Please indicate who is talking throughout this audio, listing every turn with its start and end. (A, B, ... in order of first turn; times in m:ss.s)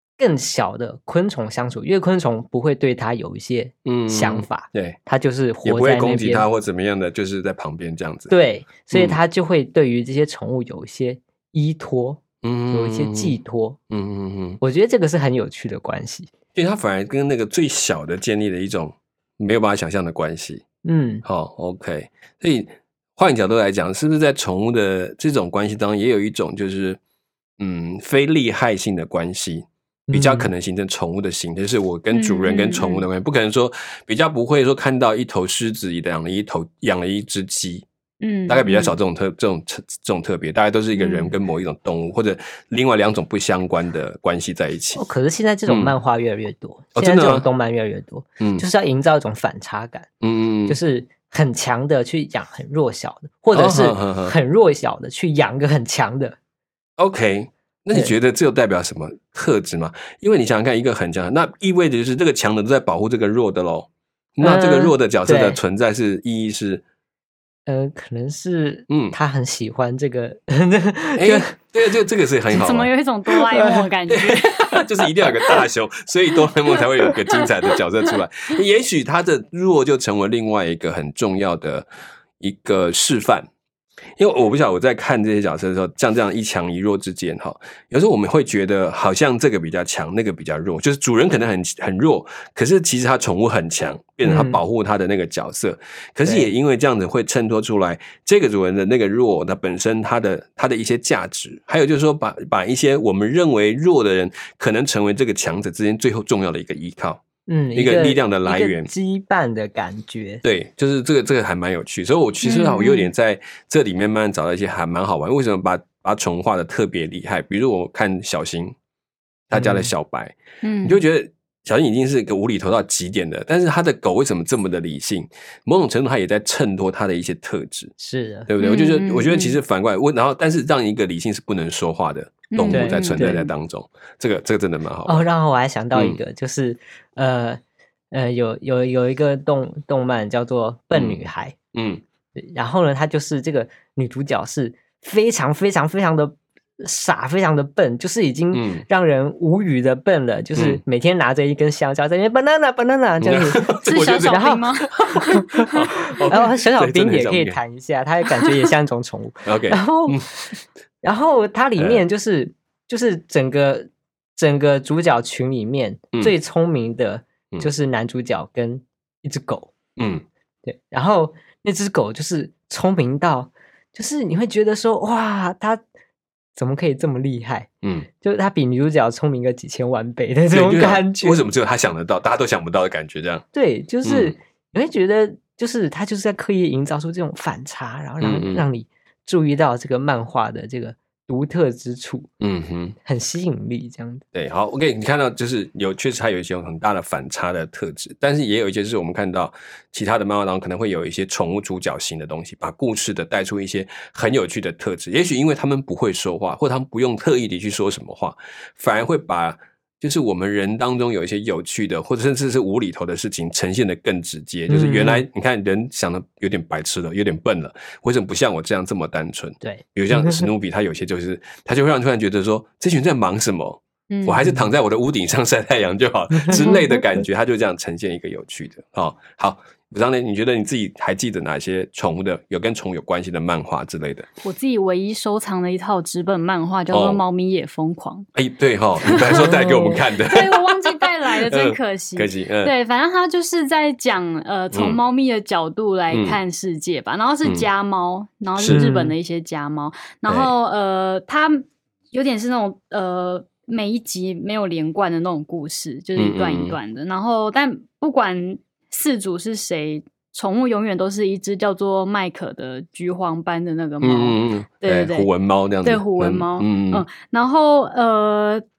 0:00.2-0:06.4 A
0:03.8-0:05.0 B
0:05.6-0:08.3 B
0:08.3-0:13.8 A
0:08.9-0:09.2 B
0:12.4-0:13.4 B
0:13.9-0:14.6 B
0:14.6-0:16.3 A
0:16.5-0:20.6 B
0:20.8-0:21.2 A
0:21.2-0:27.0 B
0:27.6-0:37.8 B
0:30.1-0:30.5 A
0:32.1-0:33.0 C
0:38.2-0:38.9 C
0:38.5-0:45.0 B
0:40.9-0:41.3 C
0:44.9-0:50.1 A
0:45.7-0:45.9 B
0:47.0-0:47.4 B
0:48.4-0:48.6 B
0:50.2-0:50.8 B
0:50.7-0:56.4 A
0:53.5-0:54.3 B
0:57.0-1:06.8 B
1:04.4-1:05.6 A
1:07.6-1:11.5 A
1:08.9-1:09.2 B
1:11.2-1:12.9 B
1:12.5-1:14.8 C
1:13.6-1:13.8 A
1:14.1-1:21.9 B
1:16.7-1:17.8 C
1:22.4-1:23.5 B
1:24.2-1:47.2 B
1:34.2-1:34.6 A
1:47.5-1:50.4 A
1:47.7-1:48.9 B
1:50.4-1:58.8 B
1:52.4-1:53.1 C
1:59.5-2:07.9 B
1:59.5-1:59.9 A
2:00.6-2:01.0 C
2:08.0-2:08.5 A
2:08.5-2:15.2 B
2:08.6-2:09.6 C
2:12.5-2:13.4 C
2:12.7-2:13.5 A
2:15.0-2:17.6 A
2:15.9-2:16.2 B
2:18.1-2:21.5 A
2:20.9-2:21.2 B
2:21.7-2:22.0 B
2:22.4-2:34.6 A
2:28.5-2:28.8 B
2:30.6-2:30.8 B
2:33.2-2:34.5 B
2:33.8-2:35.8 C
2:35.1-2:37.6 B
2:35.3-2:40.4 A
2:39.4-2:40.3 B
2:41.0-2:49.7 A
2:41.8-2:42.0 B
2:50.0-2:50.2 B
2:50.6-2:55.8 A
2:56.6-2:57.7 A
2:57.8-2:58.1 B
2:58.2-3:01.4 A
3:00.5-3:03.4 B
3:03.5-3:12.3 A
3:04.0-3:04.4 B
3:08.2-3:08.6 B
3:12.4-3:13.0 B
3:13.0-3:14.2 A
3:14.3-3:54.3 B
3:34.7-3:35.2 A
3:39.6-3:40.5 A
3:44.1-3:44.4 C
3:46.3-3:46.8 A
3:46.5-3:46.8 C
3:54.4-3:58.3 C
3:56.9-3:57.2 B
3:58.3-4:02.7 B
3:59.0-4:25.3 C
3:59.4-3:59.9 A
4:04.7-4:05.0 B
4:06.1-4:06.4 B
4:08.6-4:08.8 B
4:08.6-4:09.1 A
4:16.2-4:16.8 B
4:24.0-4:27.0 B
4:25.8-4:28.6 C